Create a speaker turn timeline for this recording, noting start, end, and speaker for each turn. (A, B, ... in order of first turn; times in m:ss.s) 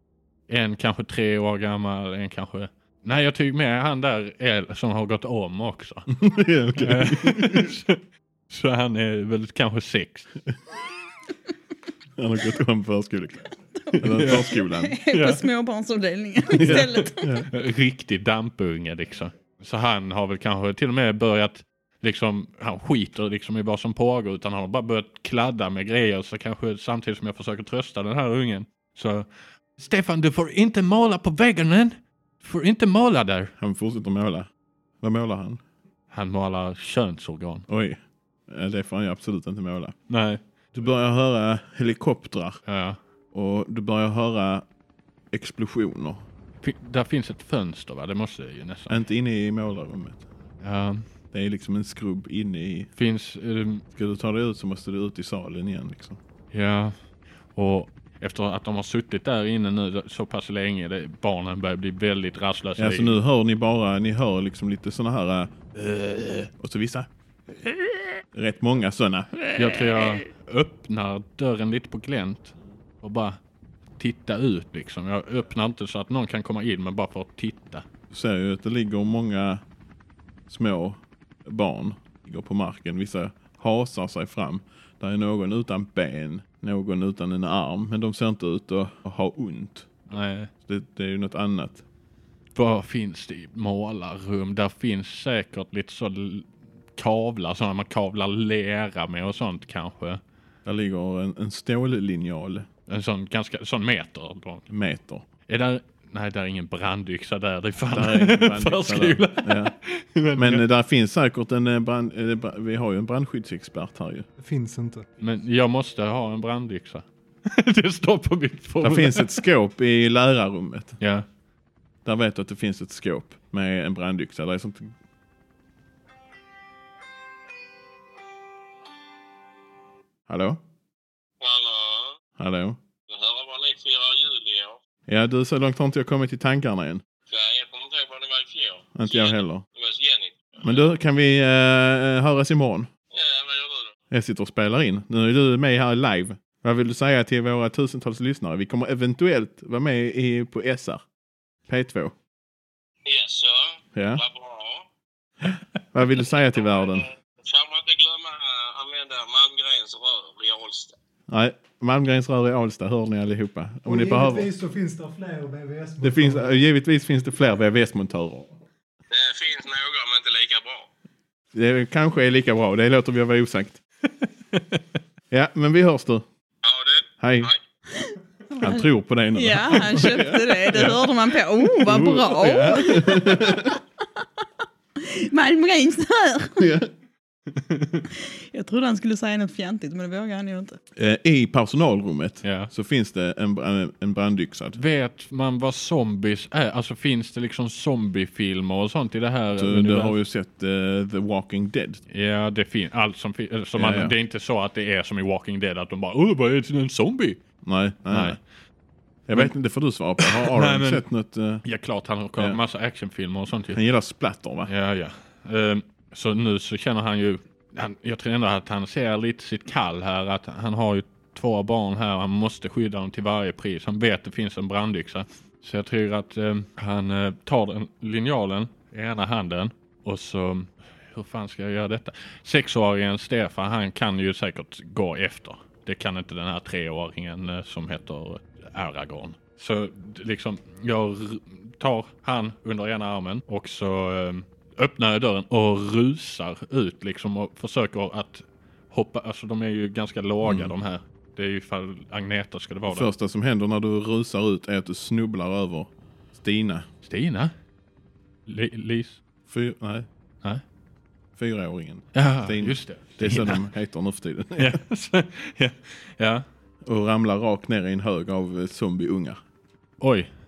0:00.5-0:06.1 A
0:06.1-0:07.7 B
0:06.8-0:08.0 A
0:08.5-0:10.3 A
0:12.2-0:15.0 B
0:13.9-0:17.4 C
0:14.1-0:14.5 A
0:15.1-0:15.4 A
0:16.5-0:29.2 A
0:16.5-0:17.5 B
0:29.8-0:33.5 A
0:33.6-0:34.5 B
0:35.0-0:35.6 B
0:36.1-0:37.7 A
0:37.7-0:39.9 B
0:40.1-0:40.4 A
0:40.7-0:42.6 B
0:42.6-0:43.0 A
0:43.3-0:44.6 B
0:45.3-0:46.2 B
0:46.6-0:49.0 A
0:48.9-0:50.2 B
0:50.6-0:51.0 A
0:51.3-0:52.9 B
0:53.0-0:53.8 A
0:53.9-0:56.2 B
0:56.5-0:56.9 A
0:57.5-1:03.2 A
1:02.8-1:07.1 B
1:08.3-1:09.8 B
1:09.5-1:13.4 A
1:14.0-1:17.8 A
1:18.1-1:19.6 B
1:20.5-1:30.0 B
1:30.1-1:30.5 A
1:30.6-1:31.8 B
1:32.5-1:40.2 A
1:40.6-1:42.7 B
1:42.9-1:44.7 A
1:44.7-1:45.2 B
1:45.5-1:50.6 A
1:47.9-1:49.7 B
1:50.4-1:54.3 B
1:54.4-1:55.0 D
1:55.2-1:59.4 A
1:58.8-2:01.0 B
2:01.0-2:01.2 A
2:02.0-2:04.9 B
2:10.3-2:10.6 B
2:11.4-2:12.2 E
2:12.4-2:12.8 B
2:13.1-2:14.8 E
2:15.1-2:17.0 B
2:17.2-2:20.6 E
2:18.9-2:19.6 B
2:20.6-2:22.9 B
2:23.1-2:23.9 E
2:24.1-2:31.0 B
2:31.7-2:32.2 B
2:33.0-2:34.9 E
2:33.9-2:34.2 B
2:35.9-2:37.1 B
2:37.4-2:40.9 E
2:41.3-2:44.5 B
2:43.8-2:46.6 D
2:46.0-2:48.6 B
2:49.1-2:50.9 E
2:51.5-2:53.8 B
2:54.5-2:54.8 A
2:55.3-2:56.2 B
2:56.6-2:57.1 E
2:57.2-2:57.5 B
2:58.6-3:01.1 B
2:59.3-3:03.8 C
2:59.9-3:00.2 A
3:01.8-3:03.0 A
3:01.8-3:03.8 B
3:05.0-3:06.7 C
3:06.6-3:06.9 B
3:07.5-3:08.0 A
3:08.2-3:10.8 C
3:11.0-3:14.8 B
3:12.4-3:12.7 A
3:14.8-3:20.2 A
3:19.5-3:22.0 B
3:22.1-3:27.4 A
3:23.8-3:24.1 B
3:27.6-3:28.4 B
3:28.1-3:28.4 A
3:29.3-3:31.6 B
3:30.2-3:31.0 A
3:31.6-3:33.8 A
3:33.7-3:34.7 B
3:34.6-4:13.1 A
4:10.4-4:10.7 B
4:12.9-4:16.9 B
4:17.0-4:17.5 A
4:18.4-4:19.2 A
4:19.4-4:20.1 B
4:21.4-4:24.8 B
4:22.1-4:23.7 A
4:24.6-4:26.4 A
4:26.8-4:29.4 B
4:30.0-4:30.3 A